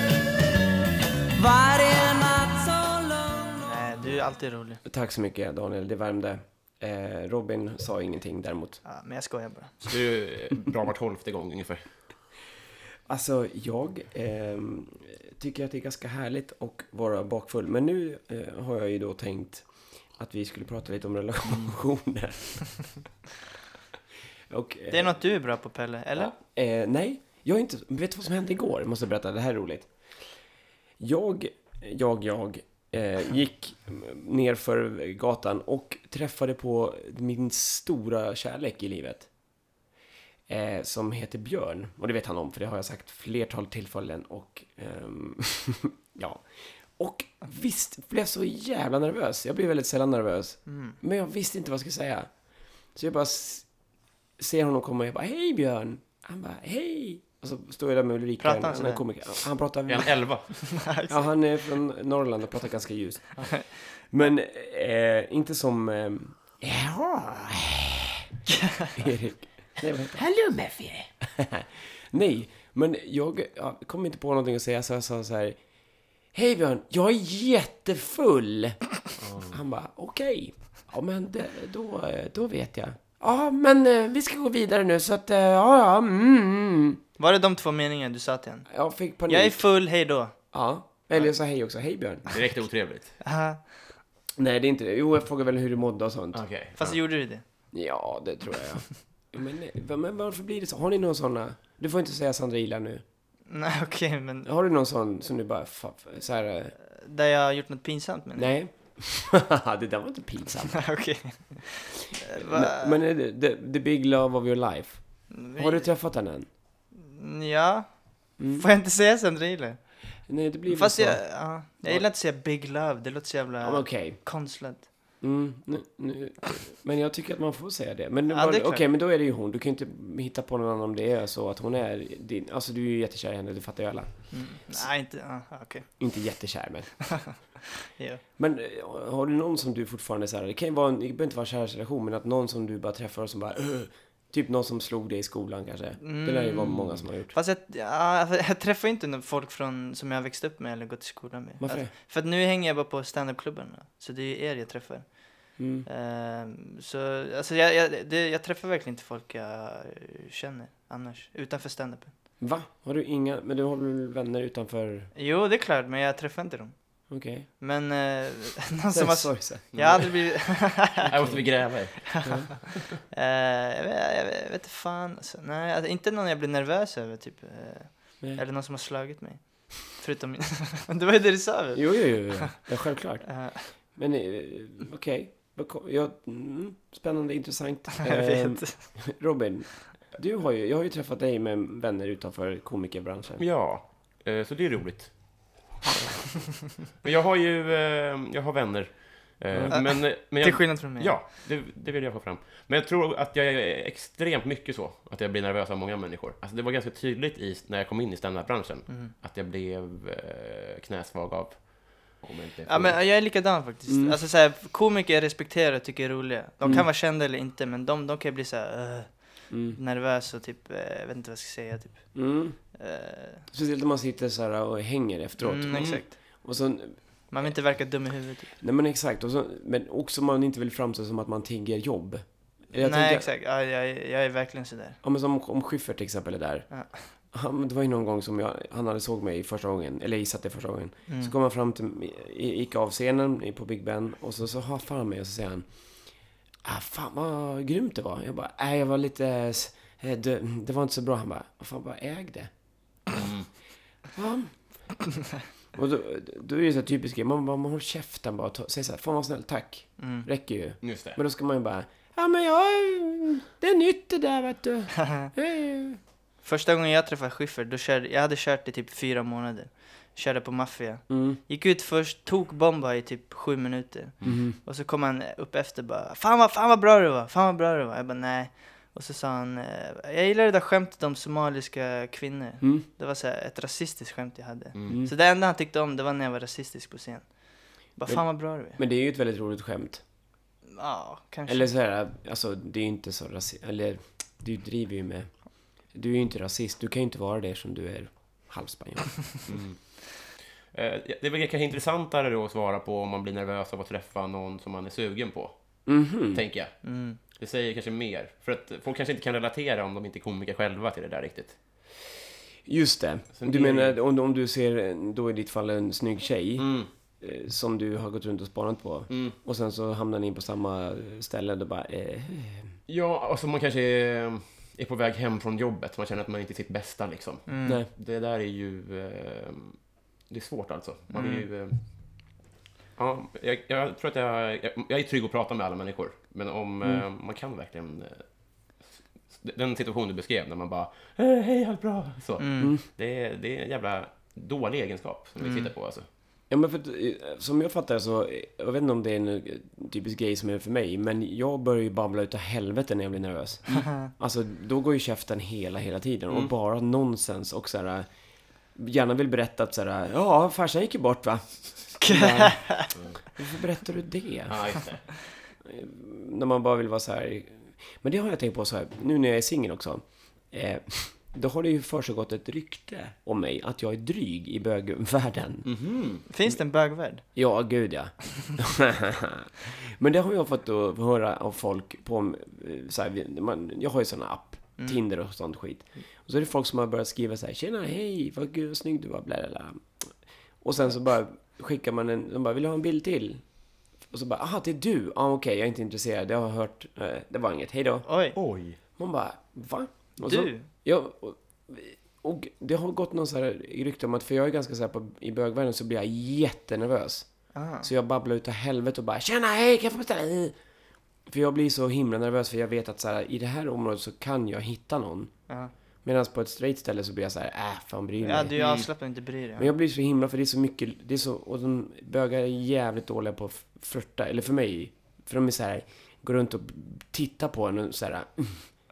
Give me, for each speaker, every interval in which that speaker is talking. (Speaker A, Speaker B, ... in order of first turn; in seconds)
Speaker A: 1.3-3.9
Speaker B: 3.6-4.8, 8.8-9.8, 24.9-26.3, 50.7-51.0, 58.4-59.0, 60.6-61.2, 68.5-68.9, 87.2-88.7, 89.3-90.4, 93.2-93.7, 96.8-97.4, 103.5-104.5, 106.9-108.5, 110.8-113.0, 115.3-115.9, 116.9-119.8, 120.7-124.9, 128.3-128.8, 134.3-135.9, 137.1-138.2, 146.0-162.1, 165.1-166.8, 167.6-171.3, 172.1-172.5, 173.1-182.6, 183.2-183.7, 188.0-188.9, 199.7-201.1, 212.7-223.4, 225.4-226.4, 227.3-228.5, 232.8-235.0, 236.7-237.1, 241.1-241.3, 260.0-260.2, 265.0-265.3, 266.4-288.8, 290.8-291.7, 306.8-307.2, 327.5-327.8, 331.1-331.4, 342.4-342.8, 345.4-345.7, 362.0-362.9, 376.3-377.2, 398.1-398.4, 400.2-400.6, 407.5-407.9, 418.2-419.7
Speaker C: 4.8-8.8, 13.1-22.9, 24.5-25.3, 26.2-29.9, 31.0-39.3, 40.5-52.3, 52.9-53.7, 54.4-60.2, 61.1-68.3, 68.9-70.6, 71.2-75.6, 76.3-78.9, 79.5-87.0, 88.7-89.7, 90.5-92.3, 94.4-96.4, 97.7-103.0, 104.4-106.7, 108.3-110.9, 112.3-116.5, 118.4-118.7, 120.3-122.1, 123.6-124.2, 125.2-134.9, 136.0-137.2, 138.4-147.3, 151.6-151.9, 155.6-155.8, 162.4-165.1, 167.1-167.5, 168.9-169.7, 172.2-172.5, 181.7-193.4, 213.9-214.2, 219.5-219.8, 222.1-222.6, 223.5-227.0, 228.6-233.3, 235.0-245.7, 246.6-252.5, 254.1-254.6, 255.7-266.0, 271.1-271.4, 274.2-274.6, 288.1-290.0, 291.5-295.3, 295.9-299.4, 305.9-306.4, 312.6-316.7, 317.2-322.8, 346.5-358.1, 358.7-364.8, 365.6-375.7, 377.3-393.4, 394.1-398.1, 399.0-410.6, 411.3-415.3, 416.0-418.5, 419.6-428.7
Speaker D: 9.8-11.9, 59.9-60.5, 70.3-71.0, 79.2-79.6, 92.2-93.2, 96.3-97.0, 169.7-170.1, 171.0-172.2, 193.4-195.1, 197.0-213.0, 225.7-226.0, 253.1-253.5, 260.8-261.2, 284.7-285.0, 299.4-299.8, 300.7-305.6, 306.3-311.6, 313.3-313.9, 316.6-316.9, 319.1-319.4, 322.9-329.8, 330.3-331.8, 333.0-338.2, 339.3-346.0, 364.5-365.1, 375.6-376.2, 398.3-398.8, 418.6-418.9